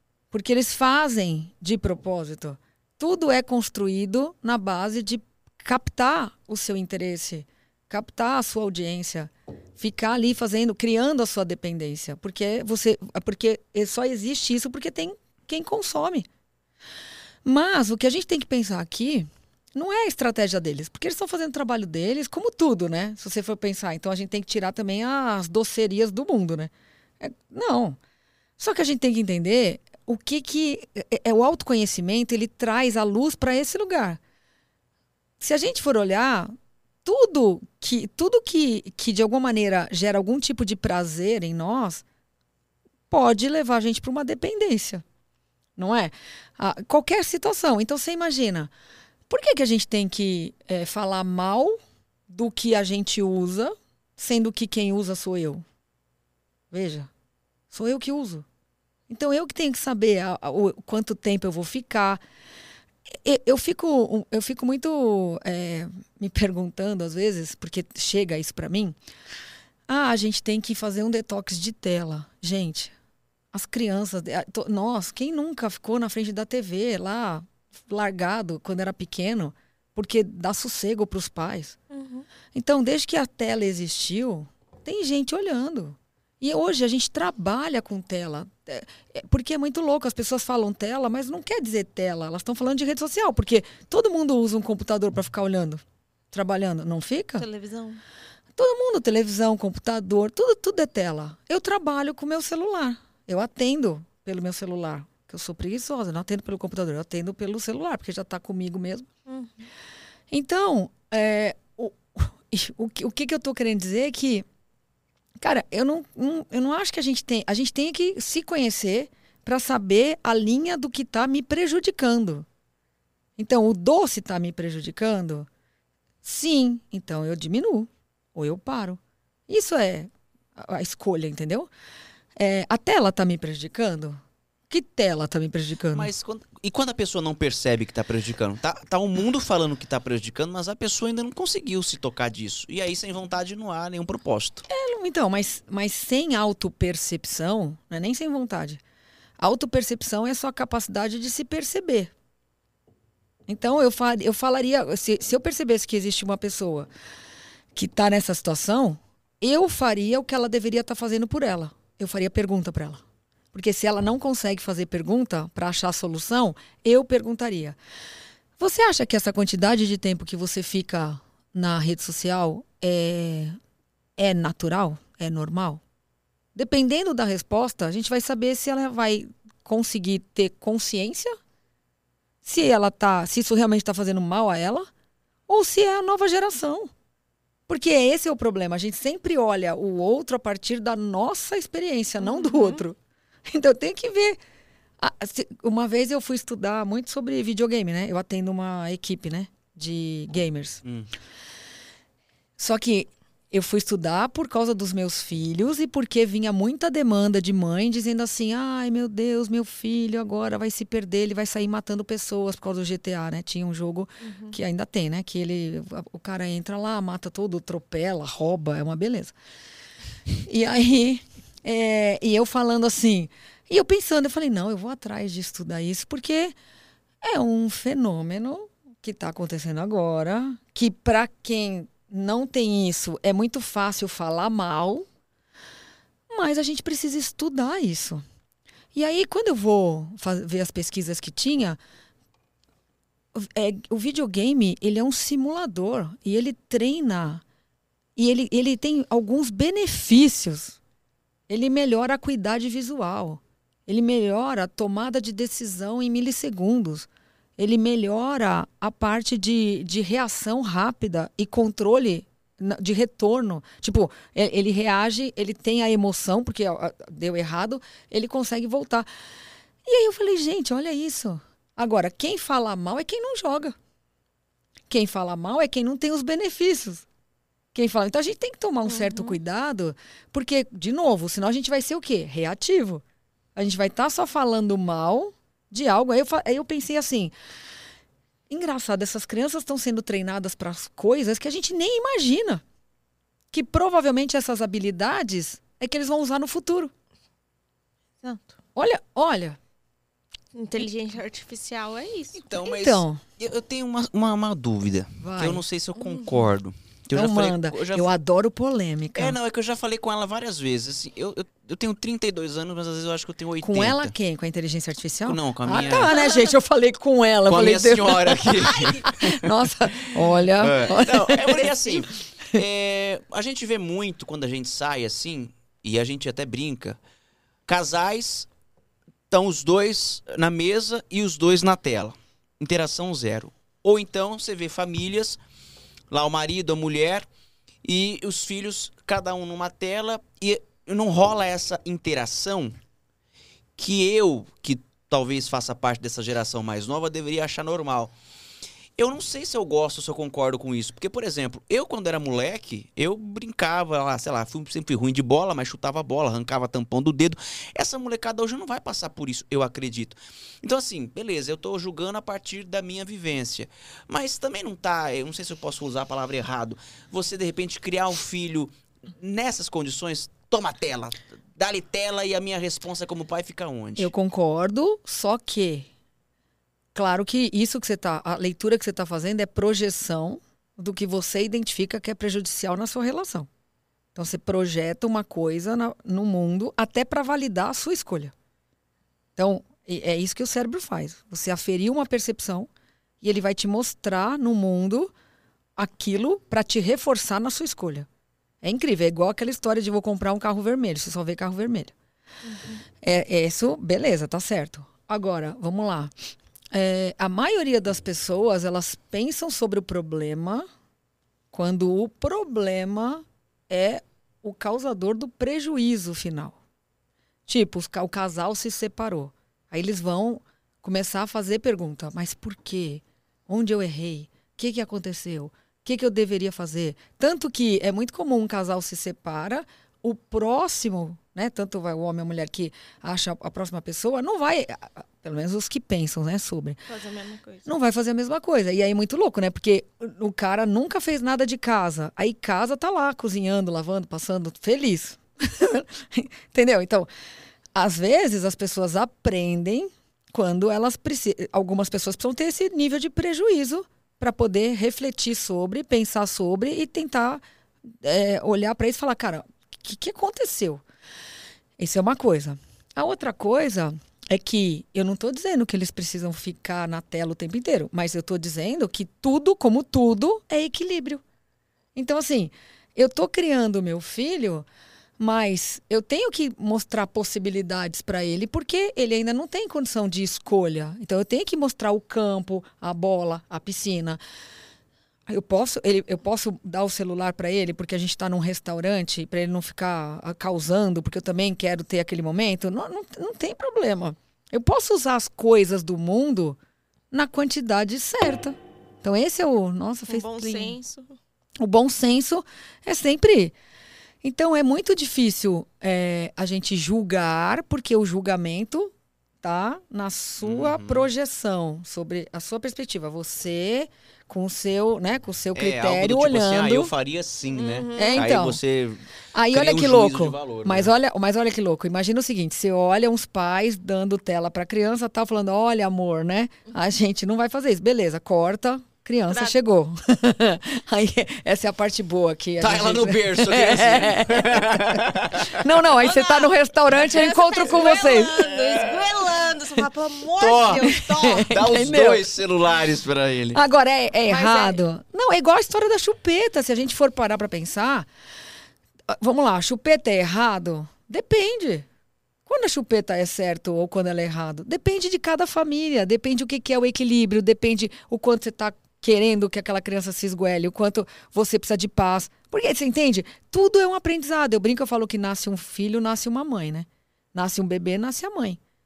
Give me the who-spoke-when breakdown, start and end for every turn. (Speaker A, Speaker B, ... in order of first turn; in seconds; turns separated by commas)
Speaker A: 0.3-16.3, Speaker A: 17.4-28.0, Speaker A: 28.6-34.2, Speaker A: 35.4-36.5, Speaker A: 37.0-42.0, Speaker A: 43.1-45.0, Speaker A: 45.8-48.7, Speaker A: 49.3-51.8, Speaker A: 52.3-55.6, Speaker A: 56.7-57.1, Speaker A: 57.7-58.4, Speaker A: 59.1-62.2, Speaker A: 63.2-69.0, Speaker A: 69.9-72.9, Speaker A: 73.5-81.8, Speaker B: 81.9-82.2, Speaker A: 82.5-97.5, Speaker B: 97.4-98.0, Speaker A: 98.5-109.1, Speaker B: 109.3-109.6, Speaker A: 110.3-114.4, Speaker A: 115.4-122.5, Speaker A: 123.4-125.5, Speaker A: 126.2-131.7, Speaker A: 132.4-136.1, Speaker C: 135.9-144.6, Speaker A: 144.7-148.8, Speaker A: 149.4-152.1, Speaker A: 153.5-156.9, Speaker A: 157.7-163.0, Speaker A: 163.5-167.8, Speaker A: 168.6-173.6, Speaker A: 174.2-175.8, Speaker A: 176.5-181.3, Speaker A: 182.4-184.9, Speaker A: 185.5-186.9, Speaker A: 187.7-194.4, Speaker B: 192.2-192.8, Speaker A: 195.0-200.8, Speaker C: 200.8-201.1, Speaker A: 202.6-219.3, Speaker B: 214.2-214.6, Speaker A: 220.3-226.5, Speaker A: 227.2-235.1, Speaker A: 236.3-238.2, Speaker A: 238.9-241.8, Speaker A: 243.3-247.4, Speaker A: 248.2-250.8, Speaker A: 251.5-269.1, Speaker A: 269.9-273.7, Speaker A: 274.9-277.1, Speaker A: 277.7-283.0, Speaker B: 278.9-279.4, Speaker A: 283.6-287.3, Speaker A: 288.5-292.6, Speaker A: 293.5-296.9, Speaker A: 298.7-299.6, Speaker B: 300.5-302.4, Speaker C: 302.4-308.1, Speaker A: 302.6-303.2, Speaker A: 305.2-305.6, Speaker B: 305.9-306.4, Speaker A: 307.1-309.4, Speaker C: 309.1-314.1, Speaker A: 313.6-322.0, Speaker C: 315.3-316.1, Speaker B: 315.7-316.5, Speaker C: 317.5-319.5, Speaker B: 318.7-319.0, Speaker C: 320.6-327.0, Speaker C: 327.7-328.5, Speaker C: 329.3-335.4, Speaker C: 336.1-337.3, Speaker C: 337.8-342.8, Speaker C: 343.8-348.1, Speaker C: 349.0-374.1, Speaker A: 374.0-375.9, Speaker A: 376.9-383.5, Speaker A: 384.1-388.3, Speaker A: 389.4-392.7, Speaker A: 393.2-395.1, Speaker A: 395.8-398.1, Speaker A: 398.6-401.9, Speaker B: 402.5-402.8, Speaker A: 403.0-406.1, Speaker A: 406.7-410.6, Speaker A: 411.5-416.6, Speaker A: 417.5-436.8, Speaker B: 436.9-437.7, Speaker A: 437.6-447.1, Speaker A: 447.7-457.4, Speaker A: 458.0-460.8, Speaker A: 461.8-471.2, Speaker A: 471.9-474.6, Speaker A: 475.2-484.2, Speaker A: 485.3-496.6, Speaker A: 497.1-500.8, Speaker B: 500.1-501.1, Speaker A: 501.6-503.5, Speaker A: 504.2-516.9, Speaker C: 510.4-511.1, Speaker C: 515.5-520.9, Speaker B: 517.5-518.3, Speaker A: 518.0-518.6, Speaker A: 519.3-538.4, Speaker B: 529.3-529.5, Speaker C: 532.6-535.6, Speaker B: 536.0-541.5, Speaker C: 537.8-539.3, Speaker C: 540.4-543.6, Speaker A: 540.8-542.3, Speaker A: 543.5-548.1, Speaker B: 544.3-544.8, Speaker A: 549.1-551.9, Speaker A: 552.5-568.6